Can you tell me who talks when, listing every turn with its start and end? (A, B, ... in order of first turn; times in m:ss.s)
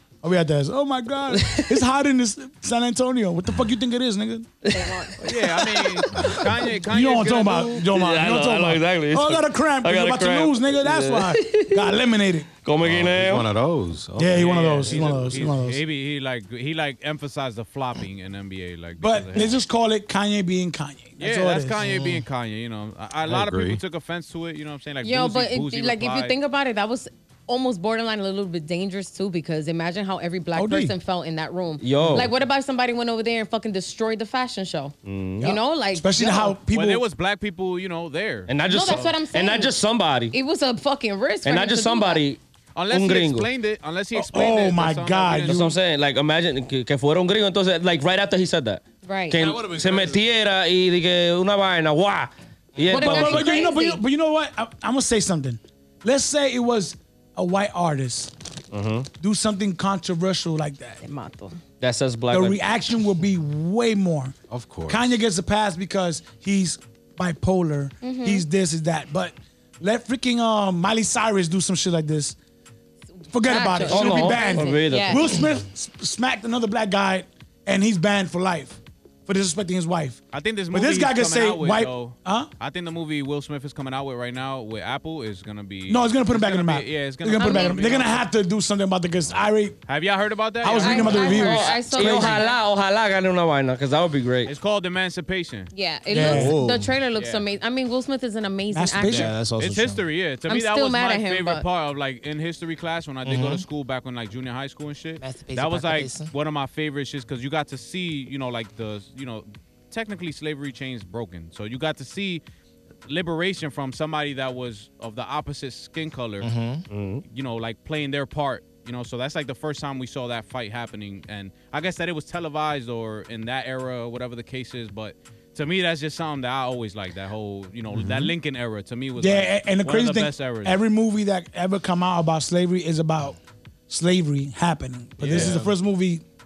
0:00.2-0:04.5 A
0:01.3-0:01.7 B
0:04.6-0:05.1 B
0:04.7-0:05.2 C
0:05.2-0:07.8 D
0:06.0-0:06.3 B
0:06.1-0:06.5 E
0:06.7-0:12.6 A
0:07.8-0:11.8 B
0:12.6-0:13.5 B
0:12.8-0:15.0 E
0:14.2-0:15.8 A
0:14.3-0:19.6 D
0:19.0-0:21.8 A
0:21.2-0:26.4 D
0:21.8-0:22.2 F
0:23.2-0:23.8 E
0:25.0-0:36.5 C
0:30.5-0:30.9 A
0:31.8-0:32.3 B
0:35.0-0:35.5 B
0:35.4-0:37.0 A
0:36.5-0:39.1 D
0:38.5-0:40.4 B
0:38.6-0:39.7 C
0:40.3-0:42.2 C
0:41.4-0:42.4 B
0:42.7-0:45.7 D
0:42.9-0:43.5 B
0:44.1-0:45.7 A
0:45.4-0:53.5 B
0:49.0-0:49.4 C
0:49.3-0:50.2 F
0:52.9-0:58.3 A
0:52.9-0:54.0 C
0:58.7-0:59.1 B
0:59.2-1:01.0 A
1:01.0-1:01.6 C
1:01.8-1:02.6 B
1:02.3-1:04.3 A
1:04.5-1:05.1 E
1:04.9-1:12.4 A
1:08.0-1:08.4 C
1:13.3-1:22.5 A
1:13.3-1:15.4 C
1:13.8-1:15.2 B
1:20.3-1:28.2 D
1:25.9-1:29.8 A
1:27.4-1:27.8 C
1:29.9-1:32.5 D
1:30.6-1:31.8 A
1:30.8-1:32.6 C
1:31.2-1:34.5 B
1:34.4-1:35.7 D
1:35.7-1:39.3 C
1:36.1-1:36.6 A
1:36.1-1:36.9 F
1:37.1-1:37.4 D
1:38.7-1:39.3 A
1:39.0-1:52.4 D
1:39.1-1:40.0 F
1:40.5-1:41.6 C
1:43.2-1:43.6 F
1:45.2-1:46.3 F
1:53.1-1:56.5 D
1:56.4-1:56.8 F
1:56.9-1:57.2 B
1:57.3-2:10.8 D
2:08.0-2:08.3 E
2:09.2-2:13.4 A
2:13.9-2:16.2 A
2:15.2-2:15.6 D
2:15.3-2:15.7 F